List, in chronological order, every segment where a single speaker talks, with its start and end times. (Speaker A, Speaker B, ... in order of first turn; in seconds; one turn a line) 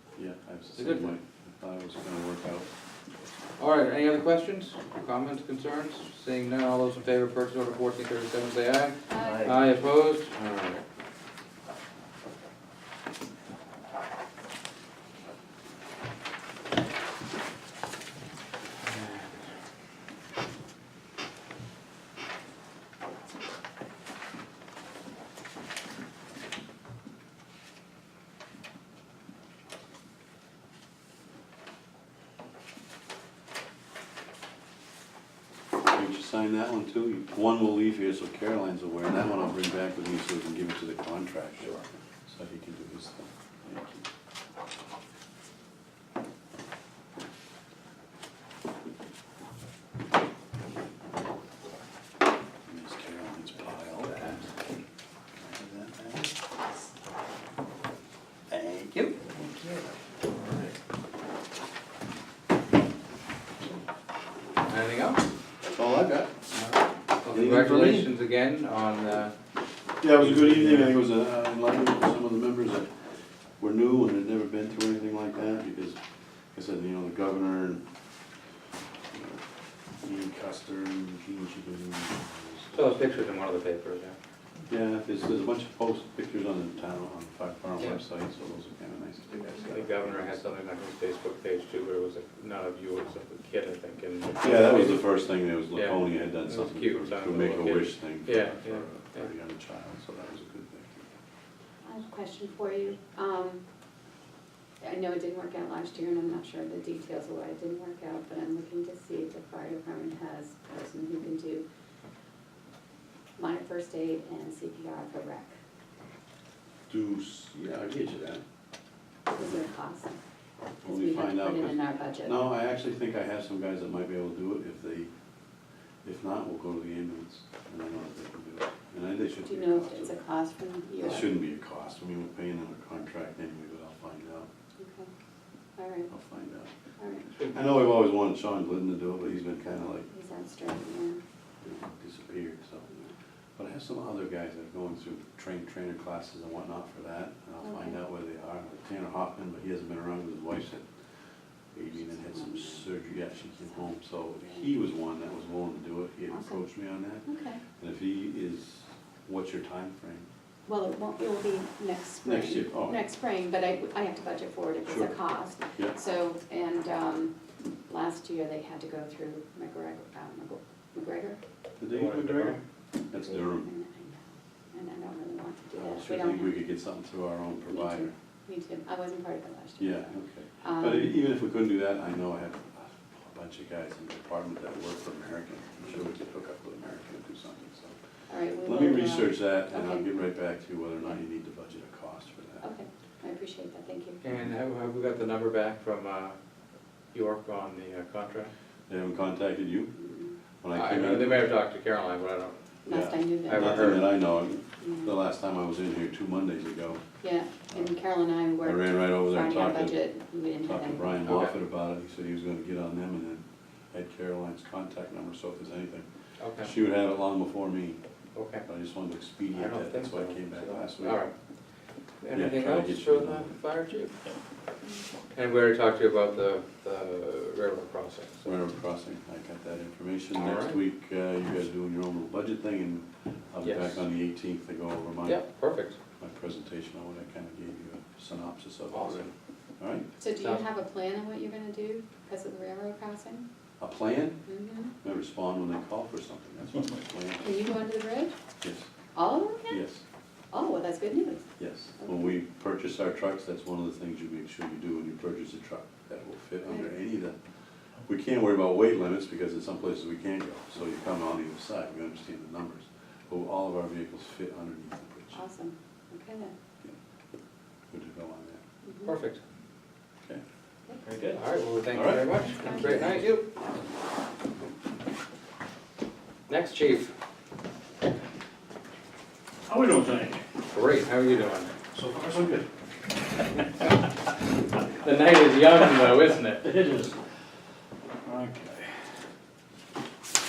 Speaker A: 0.2-2.7
Speaker B: 0.8-1.1
Speaker B: 3.6-10.8
Speaker C: 9.1-9.5
Speaker D: 9.2-9.6
Speaker A: 35.9-44.1
Speaker A: 52.7-54.4
Speaker A: 55.4-56.3
Speaker A: 58.5-59.1
Speaker D: 59.4-60.7
Speaker B: 64.6-65.3
Speaker A: 65.7-66.3
Speaker B: 66.5-69.3
Speaker A: 67.3-68.1
Speaker A: 70.0-72.9
Speaker B: 70.2-70.9
Speaker A: 73.6-76.0
Speaker A: 76.5-77.8
Speaker A: 79.1-79.4
Speaker A: 80.0-83.2
Speaker B: 82.7-84.2
Speaker A: 84.7-90.4
Speaker B: 89.6-95.1
Speaker A: 94.4-101.1
Speaker B: 95.8-99.3
Speaker C: 101.8-103.6
Speaker C: 104.8-111.7
Speaker C: 113.4-115.5
Speaker A: 116.9-118.4
Speaker C: 119.3-120.2
Speaker A: 120.8-125.1
Speaker C: 120.8-122.4
Speaker A: 126.0-130.2
Speaker C: 129.4-131.3
Speaker A: 131.0-134.5
Speaker C: 134.8-135.1
Speaker C: 135.8-136.1
Speaker A: 136.1-136.7
Speaker C: 137.0-137.2
Speaker B: 137.3-137.6
Speaker A: 137.5-140.1
Speaker C: 140.1-141.2
Speaker A: 141.6-142.9
Speaker A: 143.6-150.9
Speaker C: 147.6-147.9
Speaker A: 151.7-157.3
Speaker C: 152.4-152.8
Speaker C: 156.3-156.6
Speaker C: 157.3-157.6
Speaker A: 157.8-160.3
Speaker C: 160.7-167.3
Speaker A: 162.2-163.0
Speaker A: 164.9-165.2
Speaker C: 167.9-171.4
Speaker A: 171.8-172.6
Speaker B: 171.9-172.6
Speaker A: 173.1-173.7
Speaker C: 173.5-176.5
Speaker A: 175.8-178.1
Speaker C: 177.7-180.1
Speaker A: 179.8-188.0
Speaker C: 180.6-181.1
Speaker C: 188.3-190.1
Speaker A: 188.6-192.7
Speaker C: 192.6-194.2
Speaker B: 194.2-196.4
Speaker B: 197.1-198.5
Speaker A: 198.9-199.9
Speaker C: 200.0-200.3
Speaker A: 200.6-201.5
Speaker B: 200.7-202.6
Speaker C: 202.8-204.1
Speaker A: 202.9-207.0
Speaker B: 203.5-204.1
Speaker C: 204.8-205.1
Speaker C: 207.2-211.2
Speaker A: 208.6-210.0
Speaker A: 210.6-216.1
Speaker B: 211.3-211.6
Speaker B: 216.4-216.7
Speaker A: 216.6-218.0
Speaker B: 218.3-218.6
Speaker A: 218.7-221.2
Speaker B: 219.5-221.3
Speaker B: 222.2-224.2
Speaker A: 222.3-223.5
Speaker B: 225.3-228.5
Speaker A: 228.4-235.4
Speaker B: 230.3-230.8
Speaker B: 233.6-234.0
Speaker B: 235.2-236.0
Speaker A: 236.2-240.1
Speaker B: 238.9-239.3
Speaker C: 240.2-243.4
Speaker B: 240.3-240.6
Speaker A: 243.8-244.4
Speaker C: 244.5-244.9
Speaker A: 245.0-247.6
Speaker C: 247.4-248.3
Speaker A: 248.6-248.9
Speaker C: 249.2-249.8
Speaker A: 249.7-250.0
Speaker C: 250.5-251.5
Speaker A: 251.6-257.4
Speaker A: 258.1-265.4
Speaker C: 265.3-266.6
Speaker A: 267.9-268.6
Speaker C: 268.9-269.1
Speaker B: 269.1-269.4
Speaker D: 271.0-271.4
Speaker B: 271.3-273.5
Speaker A: 271.9-272.3
Speaker C: 272.6-273.1
Speaker B: 276.5-277.1
Speaker D: 279.7-280.4
Speaker B: 280.7-281.7
Speaker D: 281.9-282.7
Speaker B: 284.9-286.7
Speaker D: 286.6-287.2
Speaker D: 288.2-288.9